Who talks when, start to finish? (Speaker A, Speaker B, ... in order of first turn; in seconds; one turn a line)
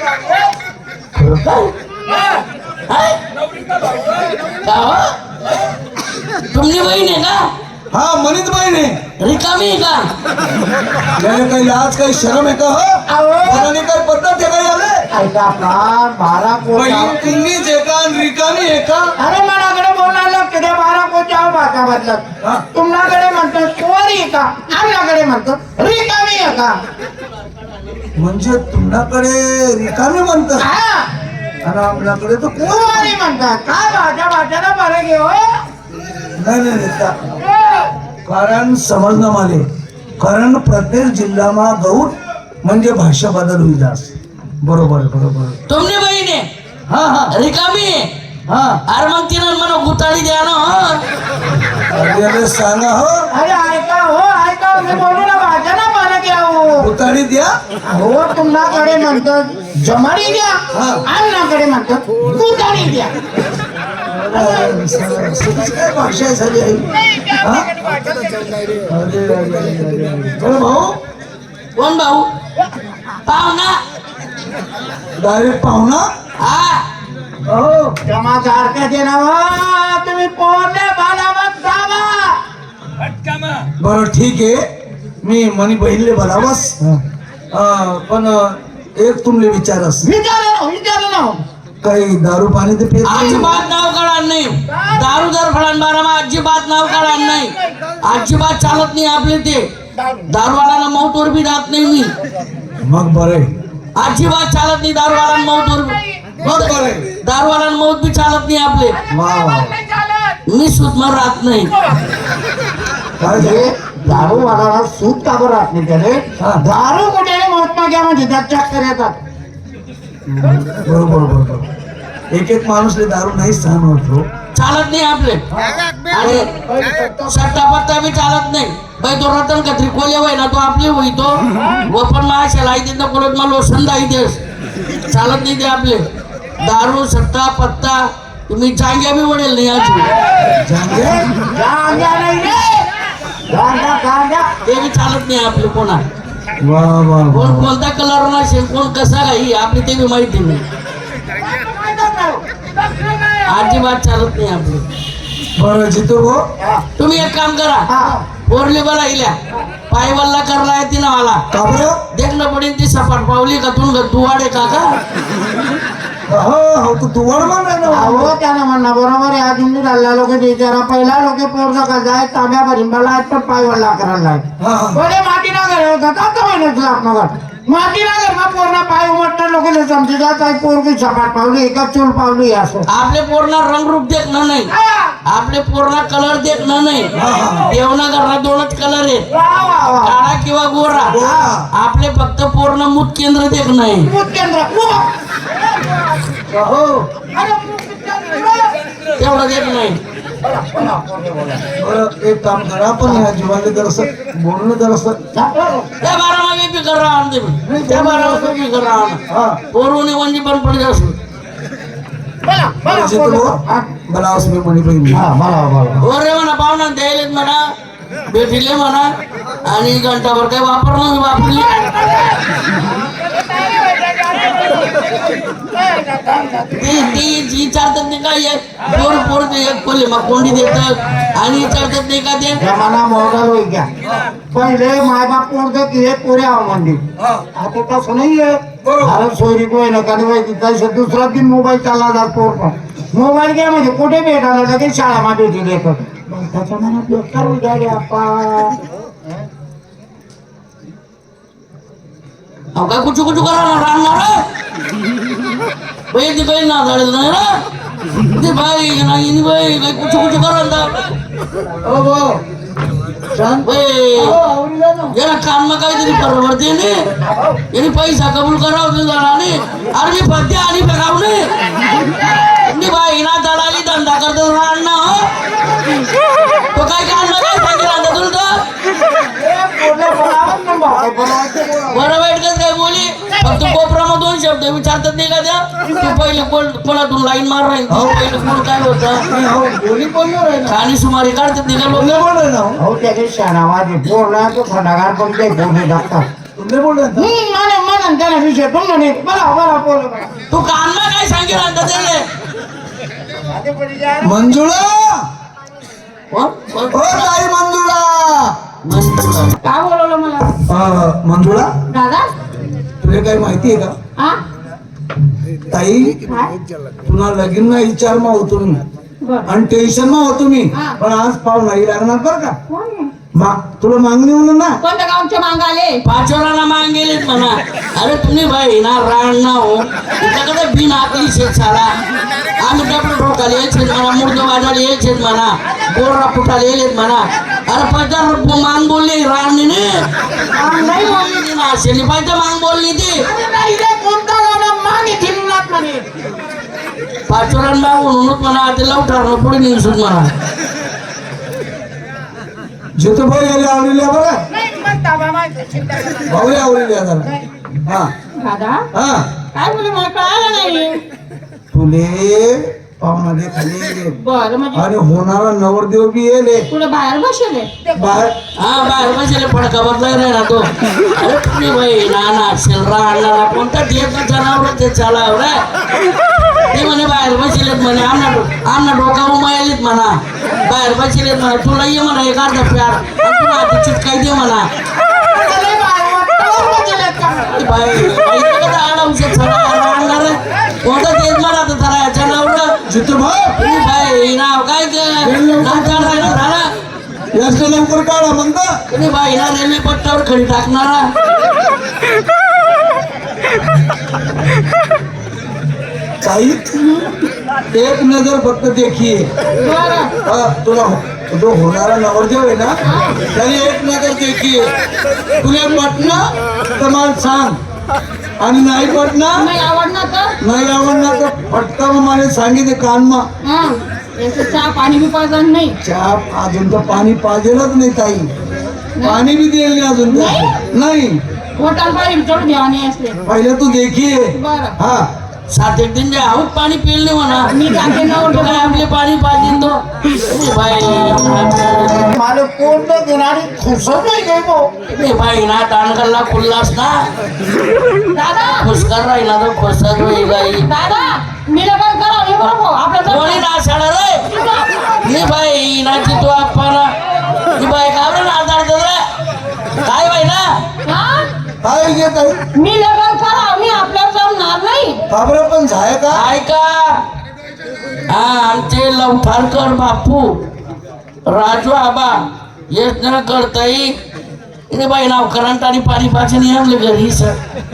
Speaker A: 1.1-1.7
Speaker A: 2.9-3.2
Speaker A: 4.6-5.1
Speaker A: 6.5-7.5
Speaker B: 7.9-9.0
Speaker A: 9.2-10.1
Speaker B: 11.2-15.1
Speaker C: 13.1-13.7
Speaker C: 15.1-17.3
Speaker B: 16.7-19.1
Speaker C: 19.2-22.2
Speaker C: 22.7-26.8
Speaker B: 28.2-30.7
Speaker C: 30.7-31.1
Speaker B: 31.6-33.1
Speaker C: 32.6-35.6
Speaker B: 36.4-37.1
Speaker C: 37.4-37.9
Speaker B: 38.3-39.6
Speaker B: 40.2-45.6
Speaker A: 45.7-46.5
Speaker B: 46.9-47.3
Speaker A: 47.3-48.1
Speaker B: 48.5-48.8
Speaker A: 48.9-51.0
Speaker B: 51.9-53.3
Speaker C: 53.3-56.9
Speaker B: 56.8-57.5
Speaker C: 57.9-63.1
Speaker B: 60.7-61.0
Speaker B: 64.1-66.9
Speaker B: 67.4-67.7
Speaker B: 68.9-71.0
Speaker A: 71.8-72.3
Speaker A: 73.3-73.7
Speaker B: 75.2-76.1
Speaker A: 76.4-76.8
Speaker B: 77.5-78.0
Speaker C: 78.1-82.4
Speaker B: 83.8-84.6
Speaker B: 85.2-87.0
Speaker B: 87.5-90.1
Speaker C: 90.0-91.4
Speaker B: 91.8-93.6
Speaker A: 93.0-99.7
Speaker A: 100.3-102.1
Speaker B: 102.8-103.5
Speaker A: 104.0-109.0
Speaker B: 106.4-107.1
Speaker B: 109.1-109.8
Speaker C: 109.3-110.1
Speaker A: 110.5-111.7
Speaker B: 113.2-114.4
Speaker C: 113.2-119.2
Speaker B: 120.4-121.7
Speaker B: 122.3-124.3
Speaker A: 124.5-125.4
Speaker A: 126.1-126.5
Speaker B: 126.1-126.5
Speaker A: 127.3-134.4
Speaker A: 135.1-136.1
Speaker A: 136.6-140.1
Speaker B: 140.6-141.3
Speaker C: 140.9-142.9
Speaker C: 143.5-144.5
Speaker A: 144.6-146.0
Speaker B: 146.6-147.7
Speaker A: 147.3-150.6
Speaker C: 151.4-152.4
Speaker A: 153.5-154.9
Speaker B: 155.6-156.4
Speaker C: 156.6-156.8
Speaker A: 157.0-157.9
Speaker C: 157.9-158.2
Speaker A: 158.4-159.4
Speaker A: 159.9-161.4
Speaker B: 161.5-162.0
Speaker A: 162.1-165.0
Speaker B: 166.3-168.3
Speaker C: 167.9-182.9
Speaker B: 174.6-175.0
Speaker A: 182.9-184.7
Speaker C: 184.7-185.1
Speaker A: 185.3-187.1
Speaker B: 187.2-187.7
Speaker A: 187.7-189.3
Speaker C: 189.3-190.2
Speaker A: 190.0-191.2
Speaker B: 191.1-191.7
Speaker A: 191.7-194.1
Speaker C: 194.1-195.1
Speaker B: 196.5-197.1
Speaker C: 197.2-198.8
Speaker A: 199.2-200.0
Speaker C: 200.4-201.7
Speaker B: 201.8-205.2
Speaker C: 205.3-205.9
Speaker A: 206.0-209.2
Speaker B: 207.7-208.6
Speaker B: 209.3-209.6
Speaker A: 209.7-211.2
Speaker C: 212.4-213.9
Speaker B: 212.8-215.2
Speaker C: 215.1-216.1
Speaker A: 216.0-217.6
Speaker A: 218.3-219.1
Speaker A: 219.7-222.3
Speaker C: 223.2-227.0
Speaker A: 226.7-232.6
Speaker C: 232.6-233.9
Speaker C: 234.5-237.0
Speaker B: 237.2-237.4
Speaker C: 237.6-248.8
Speaker B: 238.8-239.3
Speaker A: 252.8-254.4
Speaker A: 256.1-257.6
Speaker A: 258.3-261.1
Speaker B: 261.8-262.4
Speaker B: 263.3-265.2
Speaker A: 263.6-264.4
Speaker A: 265.1-267.1
Speaker A: 267.7-275.3
Speaker A: 276.7-278.6
Speaker C: 279.2-282.0
Speaker A: 281.9-289.2
Speaker B: 287.9-288.3
Speaker B: 289.3-290.8
Speaker A: 290.7-292.1
Speaker B: 291.9-292.8
Speaker C: 292.8-296.2
Speaker B: 296.6-297.3
Speaker C: 297.1-300.3
Speaker A: 300.5-302.2
Speaker C: 303.5-304.4
Speaker B: 304.2-305.3
Speaker A: 306.3-307.3
Speaker B: 306.9-308.6
Speaker A: 308.9-309.6
Speaker D: 309.6-310.6
Speaker B: 310.7-311.7
Speaker D: 311.9-312.3
Speaker B: 313.0-313.9
Speaker B: 315.7-316.2
Speaker D: 316.3-316.5
Speaker B: 317.1-318.8
Speaker D: 319.2-319.5
Speaker B: 319.5-322.6
Speaker D: 322.7-323.1
Speaker B: 323.4-324.8
Speaker D: 324.8-326.0
Speaker A: 326.0-331.9
Speaker A: 332.6-340.1
Speaker C: 340.5-341.2
Speaker A: 340.9-343.2
Speaker C: 343.2-346.1
Speaker A: 347.3-350.3
Speaker B: 353.0-354.4
Speaker C: 354.5-356.4
Speaker B: 356.3-358.1
Speaker D: 358.4-358.8
Speaker B: 358.9-359.3
Speaker D: 359.5-361.0
Speaker B: 361.7-364.2
Speaker D: 364.2-364.8
Speaker B: 364.7-366.7
Speaker D: 366.7-367.7
Speaker B: 367.9-368.4
Speaker A: 368.6-375.6
Speaker A: 376.7-384.7
Speaker C: 384.9-387.5
Speaker A: 387.5-392.8
Speaker B: 392.9-393.7
Speaker A: 393.6-396.7
Speaker B: 395.2-396.4
Speaker B: 397.3-398.7
Speaker A: 398.9-401.1
Speaker B: 406.2-406.8
Speaker B: 407.7-409.3
Speaker D: 409.6-410.1
Speaker B: 410.2-414.7
Speaker D: 412.9-413.2
Speaker B: 415.4-417.6
Speaker B: 418.4-419.5
Speaker D: 419.4-420.4
Speaker B: 420.4-423.2
Speaker D: 423.4-425.8
Speaker B: 425.8-428.3
Speaker B: 429.0-431.2
Speaker D: 430.1-430.6
Speaker D: 431.6-433.2
Speaker B: 433.2-435.1
Speaker D: 434.4-434.8
Speaker A: 435.5-442.1
Speaker D: 437.5-438.9
Speaker C: 442.1-444.7
Speaker A: 444.9-447.1
Speaker D: 448.1-448.7
Speaker A: 448.6-450.7
Speaker D: 450.6-453.4
Speaker A: 453.1-454.3
Speaker D: 454.3-455.1
Speaker A: 455.0-459.0
Speaker A: 459.8-460.5
Speaker D: 460.9-461.3
Speaker B: 461.6-462.4
Speaker D: 462.6-465.0
Speaker B: 465.1-466.2
Speaker A: 466.1-467.0
Speaker A: 468.1-470.3
Speaker A: 471.3-473.9
Speaker A: 474.7-477.4